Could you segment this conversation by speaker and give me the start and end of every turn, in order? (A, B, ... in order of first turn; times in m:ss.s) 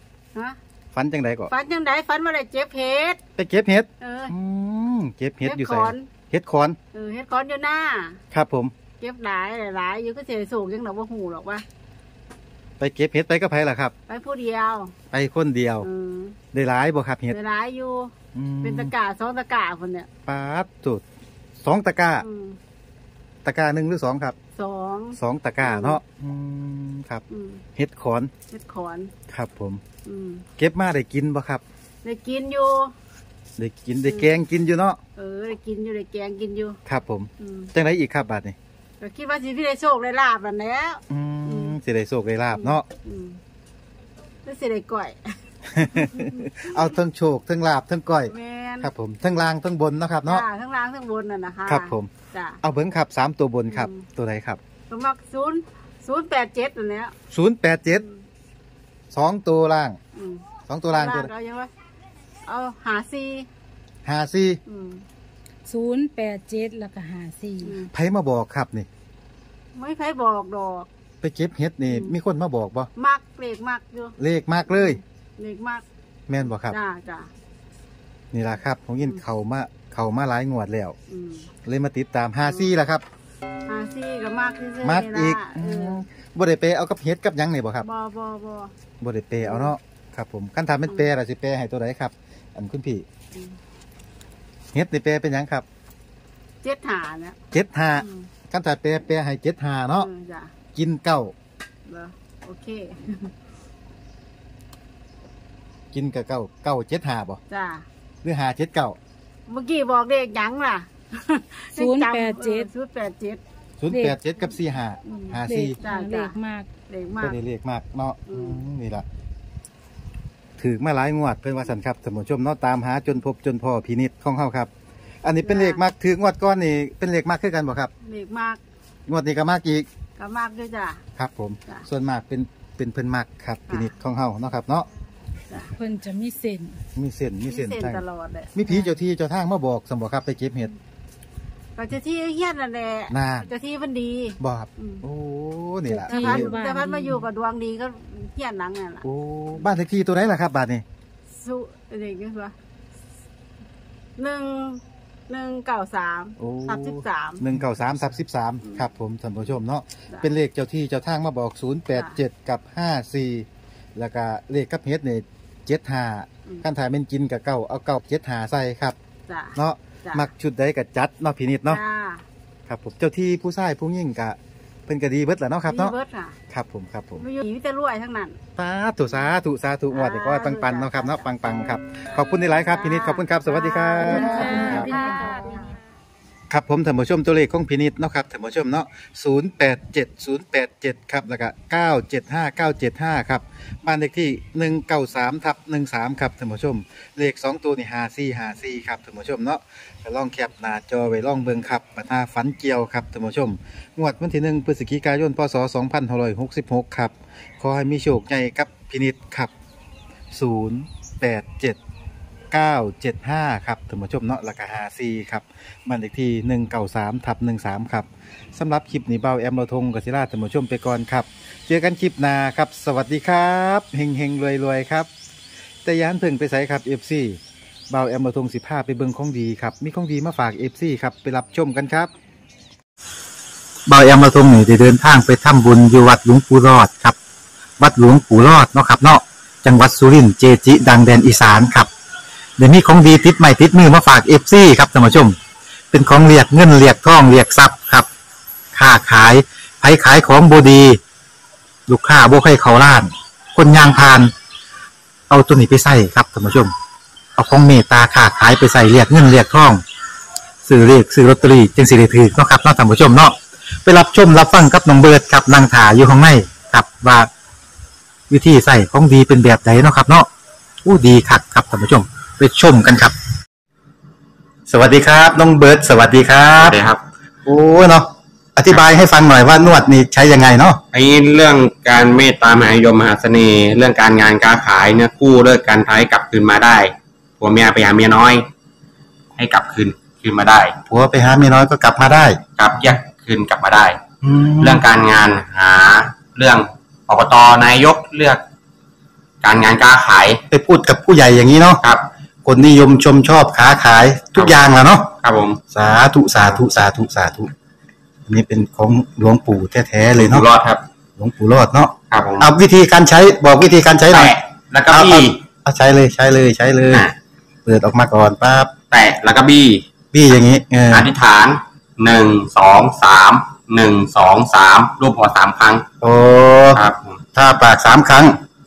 0:00.9-0:01.5 A
0:01.5-0:03.2 B
0:03.4-0:06.8 A
0:04.0-0:04.3 B
0:05.4-0:06.1 B
0:06.9-0:08.2 B
0:08.3-0:08.7 A
0:09.0-0:11.6 B
0:12.8-0:13.9 A
0:14.1-0:14.9 B
0:15.1-0:15.9 A
0:15.8-0:16.4 B
0:16.5-0:17.4 A
0:17.3-0:20.1 B
0:18.3-0:18.9 A
0:20.2-0:21.0 A
0:21.6-0:22.2 A
0:22.2-0:22.6 B
0:23.4-0:24.4 A
0:24.5-0:26.0 B
0:25.2-0:27.2 A
0:27.3-0:27.6 B
0:27.8-0:28.3 A
0:28.5-0:29.1 B
0:29.3-0:29.8 A
0:30.0-0:30.5 B
0:30.6-0:31.6 A
0:32.0-0:32.9 B
0:33.6-0:35.0 A
0:34.0-0:34.4 B
0:35.2-0:36.8 B
0:36.8-0:38.6 A
0:37.4-0:37.7 B
0:39.0-0:41.8 B
0:41.1-0:42.8 A
0:42.5-0:43.4 B
0:44.4-0:46.7 B
0:45.7-0:50.4 A
0:48.3-0:48.9 B
0:50.2-0:52.6 B
0:51.7-0:52.1 A
0:52.6-0:54.6 A
0:53.7-0:54.0 B
0:54.9-0:57.1 B
0:57.3-0:58.0 A
0:57.9-0:58.2 B
0:59.1-1:00.0 A
1:00.1-1:01.7 B
1:00.7-1:01.3 A
1:02.4-1:03.5 B
1:04.0-1:04.6 A
1:04.6-1:05.0 B
1:05.6-1:07.8 C
1:07.6-1:07.9 B
1:07.9-1:08.9 A
1:09.7-1:10.9 B
1:11.2-1:12.9 A
1:11.9-1:12.2 B
1:13.0-1:14.2 B
1:14.2-1:15.0 A
1:14.7-1:15.8 B
1:16.3-1:16.8 A
1:16.6-1:17.3 B
1:18.3-1:21.0 A
1:21.1-1:21.5 B
1:21.6-1:23.0 A
1:22.4-1:22.7 B
1:23.7-1:26.0 B
1:24.8-1:27.8 A
1:27.8-1:28.7 B
1:29.0-1:33.0 A
1:29.4-1:29.7 B
1:34.7-1:35.6 A
1:36.6-1:37.4 B
1:37.5-1:40.1 A
1:38.0-1:38.3 B
1:39.9-1:40.5 B
1:40.7-1:41.3 A
1:41.8-1:43.3 B
1:45.9-1:47.4 A
1:47.5-1:47.8 B
1:48.2-1:49.0 A
1:49.5-1:53.4 B
1:51.7-1:52.7 C
1:53.8-1:55.8 A
1:53.9-1:54.2 C
1:55.1-1:56.4 B
1:55.4-1:56.7 C
1:56.9-1:57.4 B
1:57.2-1:59.0 A
1:58.3-1:58.6 B
2:00.6-2:04.7 A
2:05.2-2:07.9 A
2:05.4-2:05.8 B
2:08.0-2:08.6 B
2:09.1-2:09.9 A
2:10.2-2:11.0 B
2:11.2-2:14.9 A
2:13.7-2:13.9 B
2:15.7-2:16.8 C
2:17.0-2:18.0 A
2:17.5-2:18.9 B
2:18.5-2:20.7 A
2:21.8-2:25.0 B
2:23.1-2:23.5 A
2:24.4-2:26.5 A
2:25.9-2:27.2 C
2:26.1-2:29.0 B
2:29.0-2:30.8 A
2:31.3-2:32.5 B
2:34.2-2:37.4 B
2:36.4-2:49.0 A
2:49.3-2:50.3 B
2:49.6-2:51.8 A
2:51.7-2:52.2 B
2:52.7-2:55.9 A
2:55.7-2:56.4 B
2:56.5-2:57.2 A
2:57.2-2:58.4 B
2:58.6-3:04.9 A
2:59.9-3:01.2 B
3:02.4-3:05.8 B
3:04.0-3:05.7 C
3:06.5-3:29.5 A
3:30.3-3:31.8 A
3:32.5-3:45.1 A
3:45.8-3:52.1 A
3:53.9-3:57.2 A
3:57.8-4:01.9 A
4:02.6-4:05.4 A
4:05.9-4:08.1 A
4:08.7-4:11.0 A
4:11.9-4:14.3 A
4:15.3-4:16.7 A
4:17.4-4:19.8 A
4:20.6-4:27.3 A
4:28.3-4:30.3 A
4:30.8-4:33.1 A
4:34.7-4:36.8 A
4:36.5-4:37.0 D
4:37.4-4:40.8 A
4:40.9-4:48.5 D
4:49.4-4:50.8 D
4:50.9-4:52.4 A
4:52.6-4:54.0 D
4:54.2-4:54.8 A
4:54.6-4:58.4 D
4:59.4-5:00.4 D
5:00.5-5:01.8 A
5:02.4-5:05.2 A
5:05.2-5:05.6 D
5:05.7-5:07.5 A
5:08.3-5:10.4 A
5:10.1-5:10.8 D
5:11.2-5:14.3 A
5:12.1-5:12.5 D
5:14.1-5:15.4 D
5:14.9-5:17.1 A
5:16.9-5:17.1 D
5:17.6-5:18.7 A
5:18.9-5:25.8 D
5:20.1-5:21.1 A
5:26.0-5:26.8 A
5:26.7-5:27.2 D
5:27.3-5:28.4 A